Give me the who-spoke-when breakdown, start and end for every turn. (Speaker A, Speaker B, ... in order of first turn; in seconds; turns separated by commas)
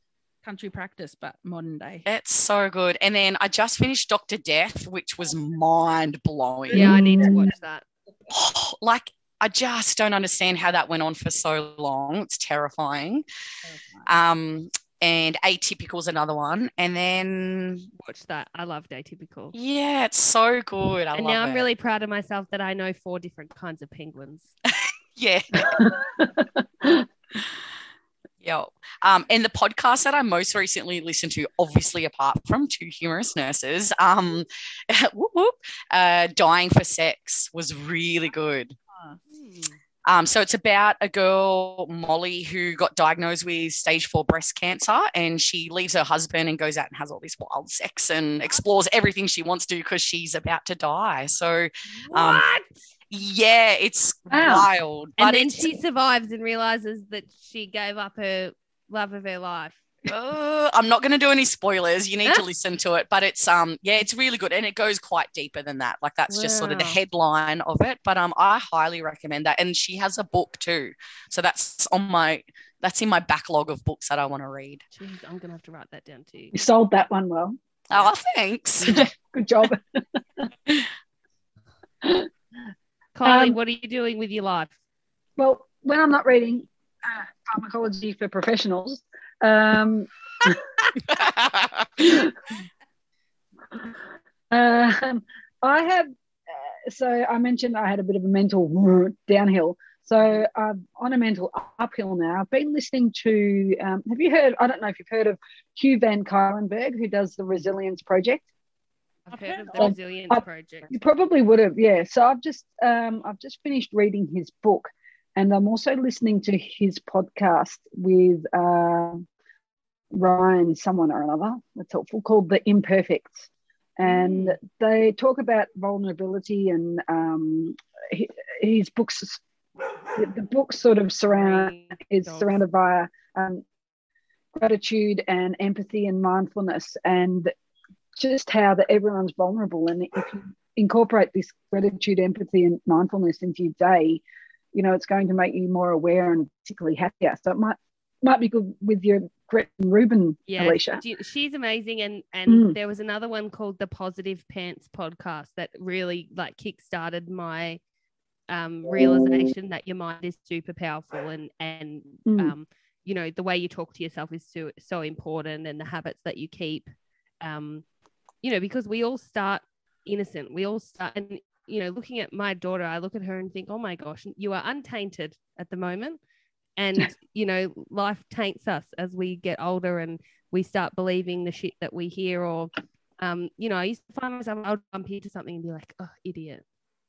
Speaker A: 0.4-2.0, Speaker B: 2.1-7.2, Speaker C: 6.7-7.8, Speaker D: 6.7-7.5, Speaker B: 8.3-13.2, Speaker A: 13.6-14.1, Speaker B: 14.1-17.9, Speaker C: 18.0-19.5, Speaker B: 19.5-21.6, Speaker C: 21.1-24.5, Speaker B: 25.1-25.9, Speaker D: 25.6-27.0, Speaker B: 28.4-38.8, Speaker A: 38.9-39.2, Speaker C: 39.3-39.8, Speaker B: 40.0-52.5, Speaker C: 52.0-52.7, Speaker B: 53.1-55.7, Speaker D: 54.3-54.7, Speaker C: 55.2-59.8, Speaker B: 60.1-74.8, Speaker C: 66.3-67.0, Speaker C: 74.9-76.5, Speaker D: 76.5-77.6, Speaker B: 77.9-79.0, Speaker D: 78.8-80.4, Speaker D: 82.0-82.3, Speaker C: 83.1-84.7, Speaker D: 83.2-83.6, Speaker D: 85.4-90.8, Speaker B: 91.0-92.2, Speaker D: 92.0-92.5, Speaker D: 94.5-108.5, Speaker C: 109.3-111.0, Speaker A: 109.3-109.9, Speaker D: 109.8-119.2, Speaker D: 120.1-129.4, Speaker C: 124.0-124.6, Speaker D: 130.1-133.6, Speaker C: 131.3-132.6, Speaker D: 134.5-137.5, Speaker D: 138.2-144.2, Speaker D: 144.7-151.0, Speaker C: 150.5-157.8, Speaker D: 152.5-152.8, Speaker C: 158.5-166.8, Speaker D: 162.2-162.5, Speaker C: 167.4-167.8, Speaker C: 168.4-176.2, Speaker C: 176.8-186.6